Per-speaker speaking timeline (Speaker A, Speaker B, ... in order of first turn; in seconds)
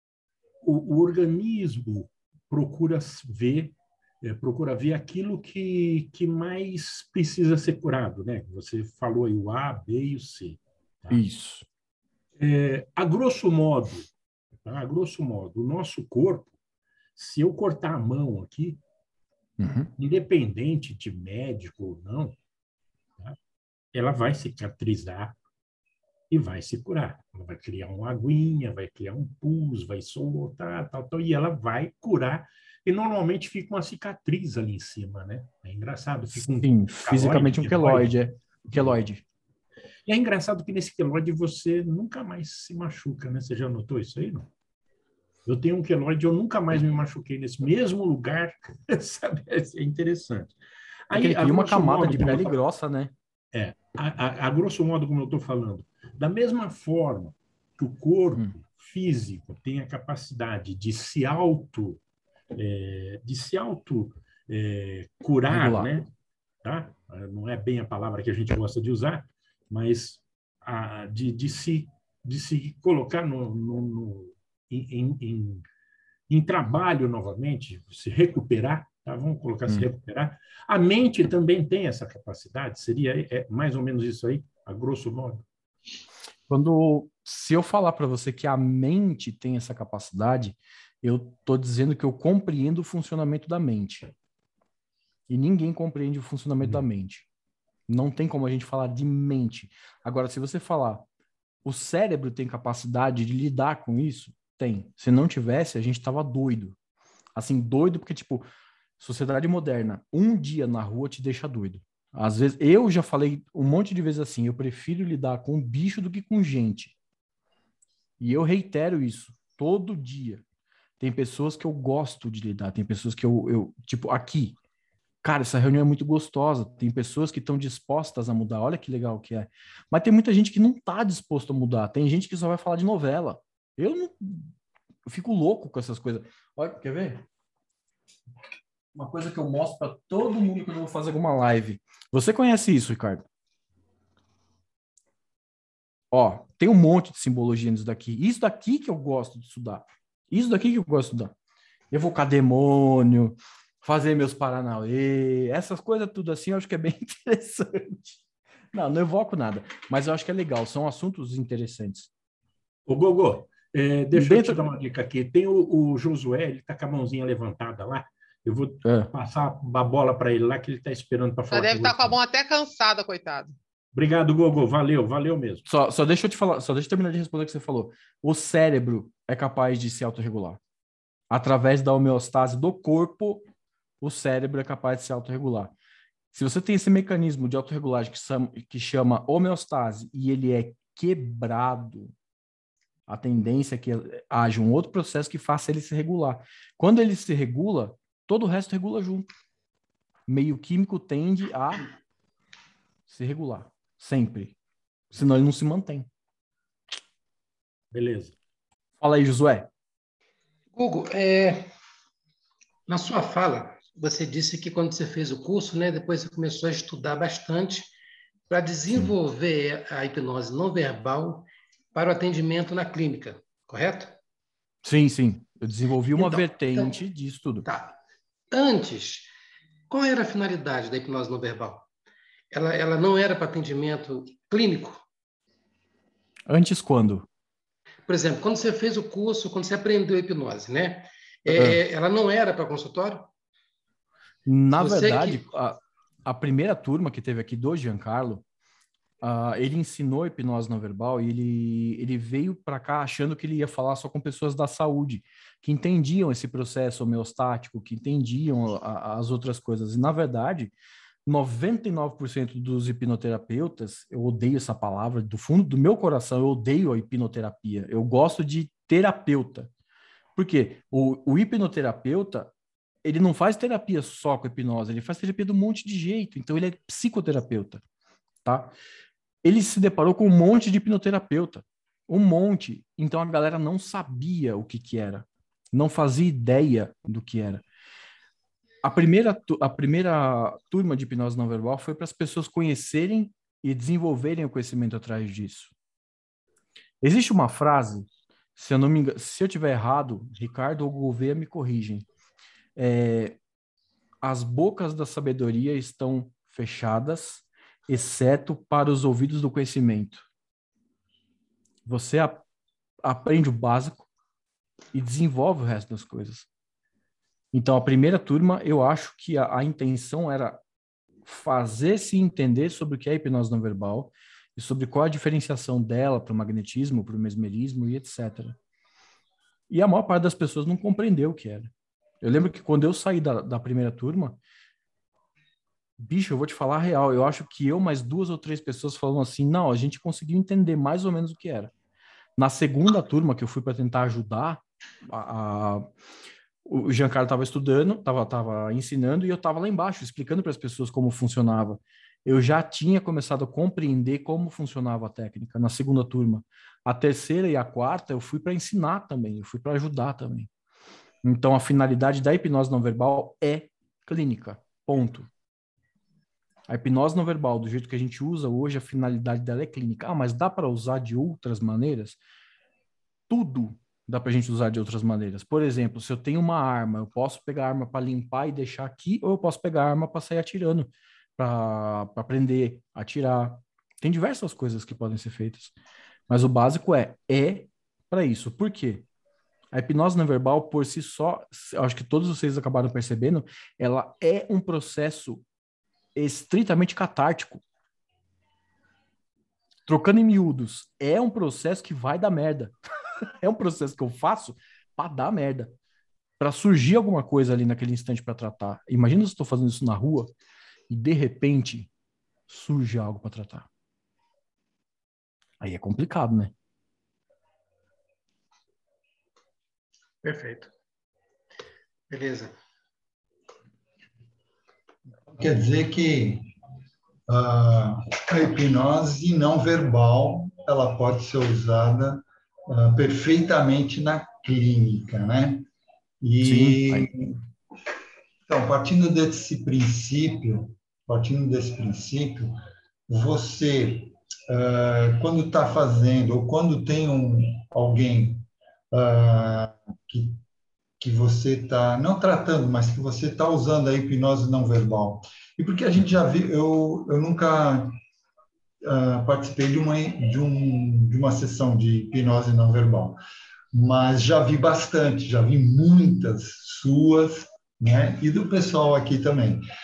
Speaker A: 0.6-11.2, 12.4-14.1, 14.6-16.5, 17.2-18.8, 20.0-22.4, 23.9-25.4, 26.3-38.2, 40.1-44.5, 45.5-50.6, 51.1-52.6, 53.5-62.0, 62.5-66.1, 66.6-75.7, 76.3-85.5, 162.9-172.2, 173.9-175.7, 207.9-208.3
Speaker B: 11.1-11.7, 19.6-19.9, 36.4-39.2, 51.1-53.1, 65.5-65.9, 86.5-94.1, 95.3-97.3, 97.9-101.1, 101.6-106.8, 107.4-108.5, 109.0-117.0, 118.2-120.4, 121.0-124.6, 125.2-134.5, 135.1-137.2, 138.9-143.2, 146.1-151.3, 151.9-162.1, 164.2-164.6, 168.8-169.1, 175.7-180.6, 181.3-183.4, 184.0-185.7, 186.3-192.1, 193.1-199.3, 200.3-201.8, 203.1-204.6, 205.1-206.1, 209.0-209.7, 224.8-227.7, 236.5-237.3, 241.6-241.8, 244.5-248.4, 249.2-260.7, 261.3-269.7, 270.4-272.5, 273.0-277.8, 278.4-278.7, 279.4-287.6, 288.8-295.7, 297.0-302.1, 302.8-303.4, 304.2-310.3, 311.9-312.4, 313.0-314.1, 314.9-316.5, 317.5-320.6, 321.2-328.6, 329.7-331.7, 332.2-334.4, 336.0-341.7, 342.4-345.9, 346.7-360.5, 361.2-365.3, 366.7-372.2, 373.3-385.7, 386.3-389.1, 389.7-395.4, 396.2-397.6, 399.9-402.8, 403.4-405.7, 406.4-410.3, 410.9-411.9, 412.5-413.7, 415.6-416.5, 436.4-437.1
Speaker C: 171.5-173.6
Speaker D: 210.7-211.7, 212.9-217.9, 218.5-224.2, 226.2-226.9, 227.7-227.9, 228.5-229.3, 229.9-231.9, 232.5-235.0, 238.1-243.3, 244.8-245.4, 420.2-420.7, 422.1-422.5
Speaker E: 425.3-426.5, 427.3-435.7, 436.2-437.4, 438.5-442.6, 443.1-450.4, 451.0-458.0, 458.8-463.2, 463.7-469.6